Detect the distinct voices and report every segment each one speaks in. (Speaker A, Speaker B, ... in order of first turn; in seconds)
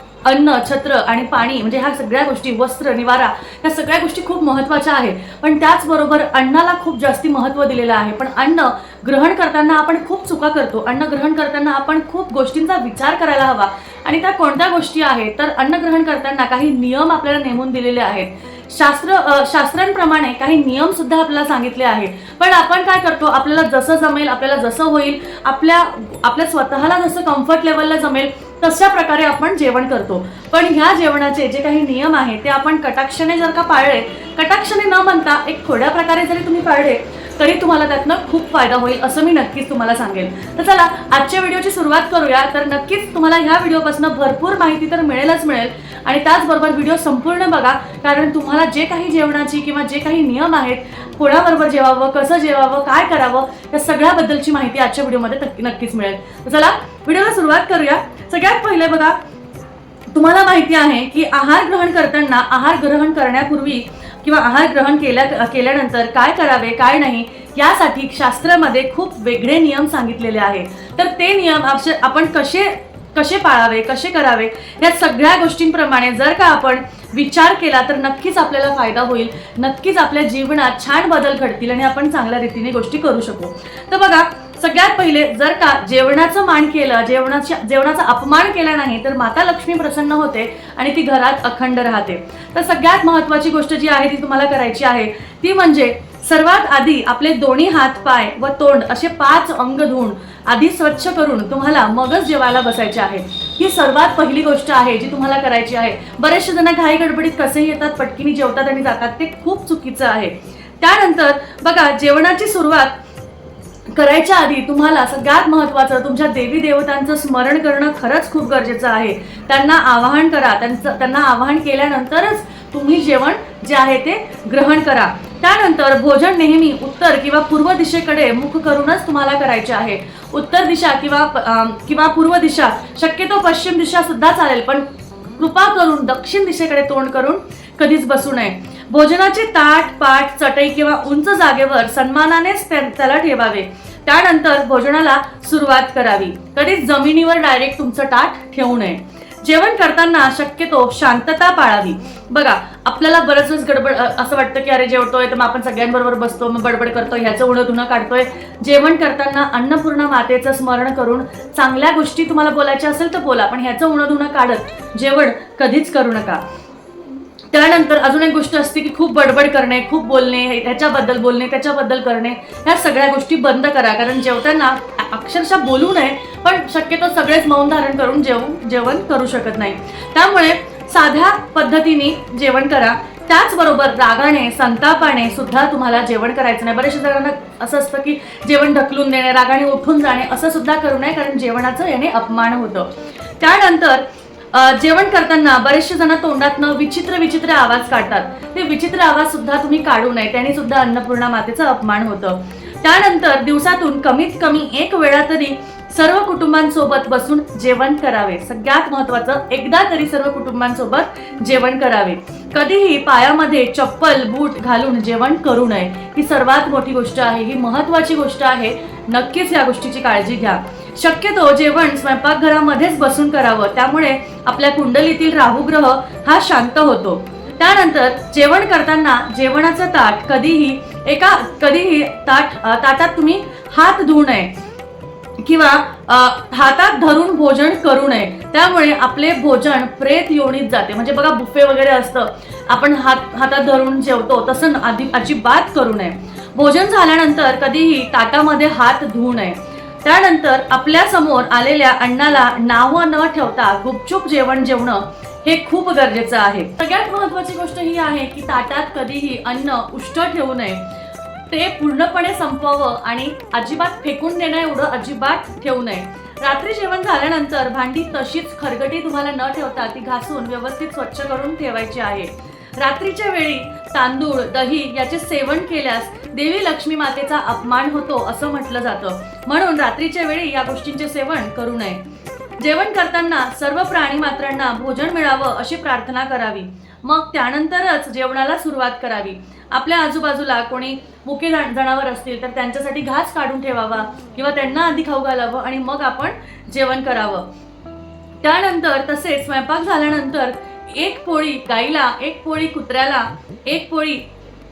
Speaker A: 0.2-59.2, 60.1-113.0, 113.9-166.4, 167.5-234.6, 235.4-260.9, 261.5-282.0, 282.6-297.5, 298.4-304.2